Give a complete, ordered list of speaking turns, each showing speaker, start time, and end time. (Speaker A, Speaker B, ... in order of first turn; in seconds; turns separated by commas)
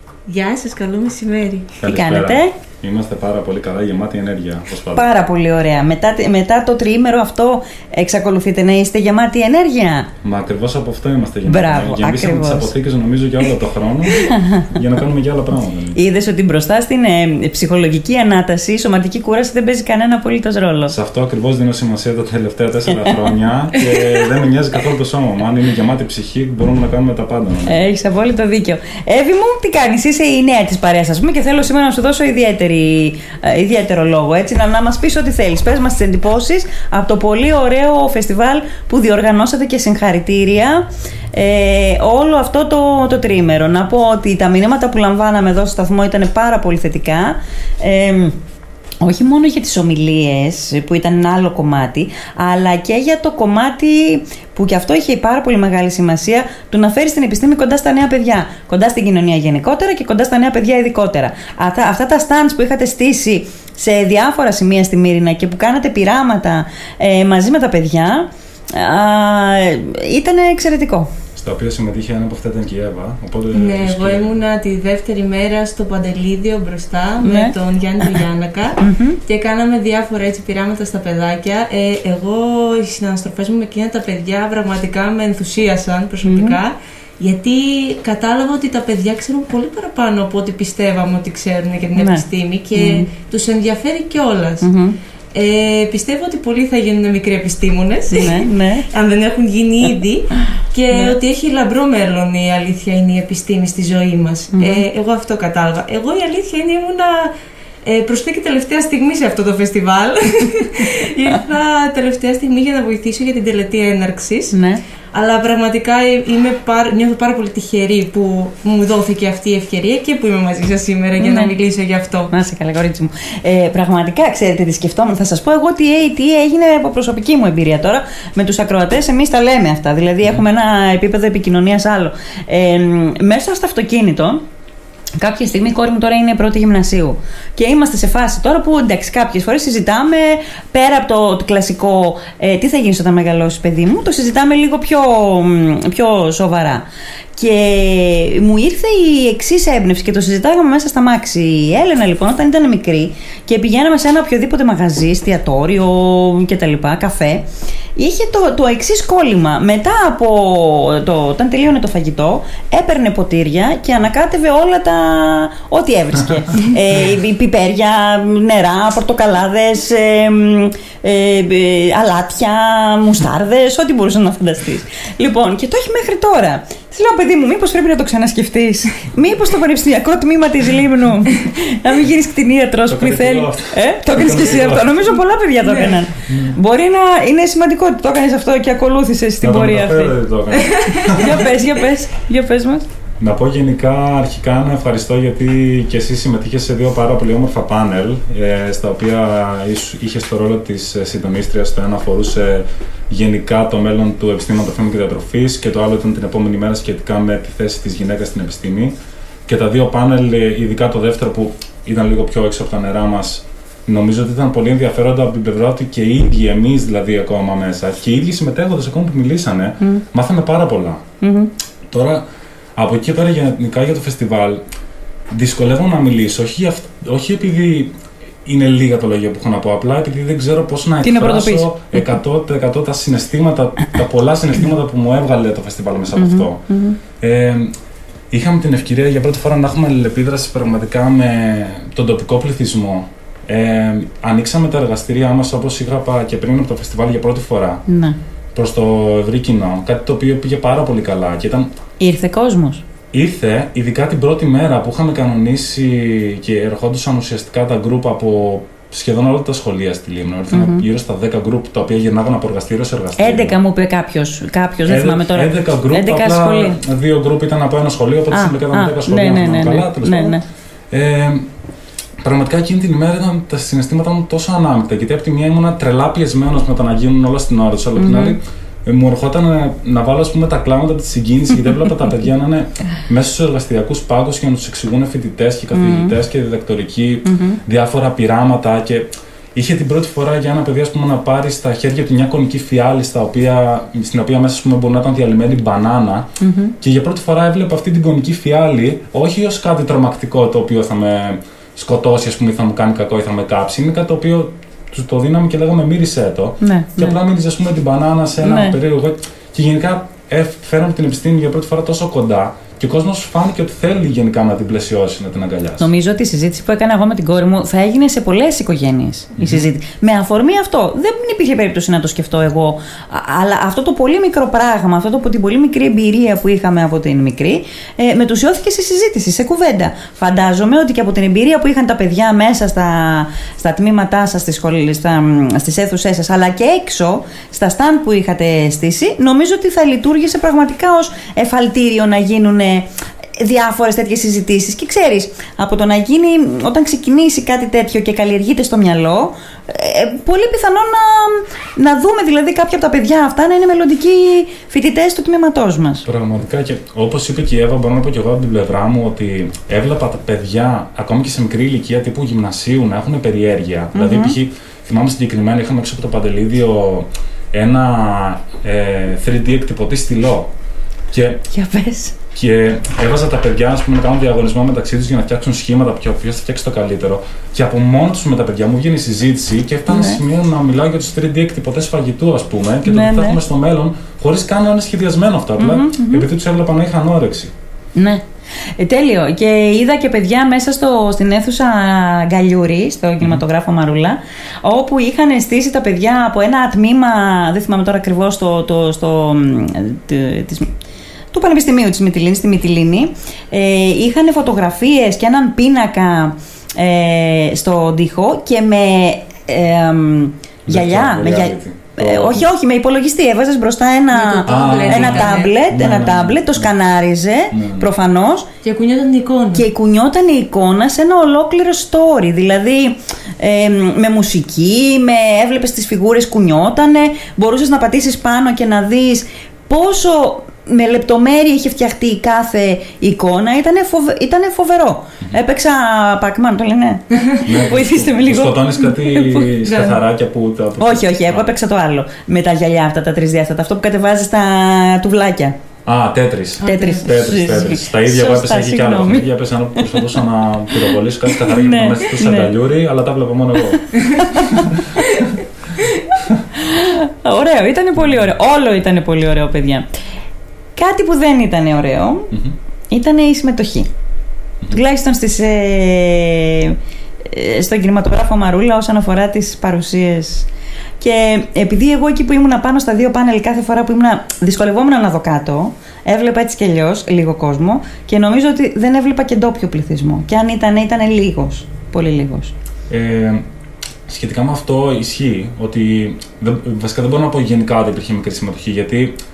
Speaker A: 0.3-1.7, Speaker B: 1.8-5.0, Speaker C: 1.8-2.5, Speaker C: 4.9-10.1, Speaker B: 10.2-16.0, Speaker C: 11.4-12.7, Speaker C: 14.2-14.7, Speaker C: 15.9-20.9, Speaker B: 20.9-27.8, Speaker C: 22.9-23.2, Speaker C: 27.6-48.4, Speaker C: 49.0-71.1, Speaker B: 71.3-74.4, Speaker A: 73.5-94.7, Speaker C: 77.2-77.5, Speaker C: 78.8-79.2, Speaker C: 86.2-86.6, Speaker C: 92.0-92.2, Speaker C: 92.8-93.1, Speaker C: 94.6-94.9, Speaker A: 95.3-107.3, Speaker C: 98.1-98.9, Speaker C: 104.5-104.8, Speaker A: 107.8-114.5, Speaker C: 114.5-114.8, Speaker A: 115.1-122.3, Speaker C: 121.2-121.5, Speaker C: 122.3-134.4, Speaker C: 135.2-146.8, Speaker C: 147.3-157.4, Speaker C: 157.9-190.2, Speaker B: 182.9-185.0, Speaker A: 185.6-186.0, Speaker B: 186.3-186.6, Speaker B: 189.4-191.5, Speaker A: 190.5-191.3, Speaker C: 191.2-192.8, Speaker B: 193.2-208.9, Speaker B: 209.5-221.0, Speaker C: 221.2-221.5, Speaker B: 221.9-222.2, Speaker B: 222.8-224.6, Speaker B: 225.3-227.9, Speaker B: 228.4-236.6, Speaker C: 231.0-232.2, Speaker C: 236.1-237.0, Speaker B: 237.2-237.7, Speaker B: 238.3-247.8, Speaker C: 247.9-248.2, Speaker B: 248.5-251.7, Speaker C: 252.0-252.8, Speaker B: 253.1-263.6, Speaker C: 260.5-260.9, Speaker C: 263.2-266.8, Speaker B: 264.9-270.4, Speaker C: 268.3-270.4, Speaker B: 270.9-271.4, Speaker B: 272.2-296.3, Speaker C: 277.9-278.4, Speaker C: 285.7-286.1, Speaker C: 287.2-287.6, Speaker C: 296.4-296.7, Speaker B: 296.8-315.9, Speaker C: 306.6-307.2, Speaker C: 308.4-308.8, Speaker C: 315.8-356.1, Speaker B: 319.4-319.6, Speaker B: 356.1-370.5, Speaker C: 363.9-364.4, Speaker B: 371.1-371.4, Speaker C: 371.5-372.1, Speaker B: 372.3-387.5, Speaker C: 379.9-380.2, Speaker C: 382.8-383.4, Speaker C: 385.6-386.3, Speaker C: 387.9-388.2, Speaker C: 388.8-400.7, Speaker C: 401.3-418.5, Speaker B: 410.6-412.5, Speaker A: 414.1-415.5, Speaker B: 414.5-416.7, Speaker B: 417.5-417.9, Speaker A: 418.6-419.6, Speaker C: 419.5-439.5, Speaker B: 437.4-441.5, Speaker A: 439.5-440.0, Speaker C: 440.8-445.5, Speaker B: 445.8-454.8, Speaker A: 446.6-447.1, Speaker C: 446.6-450.2, Speaker C: 450.8-452.5, Speaker C: 454.2-455.1, Speaker C: 456.5-459.9, Speaker C: 460.8-462.3, Speaker C: 462.9-463.9, Speaker C: 464.7-470.5, Speaker C: 471.0-482.5, Speaker B: 482.9-483.4, Speaker B: 484.1-489.1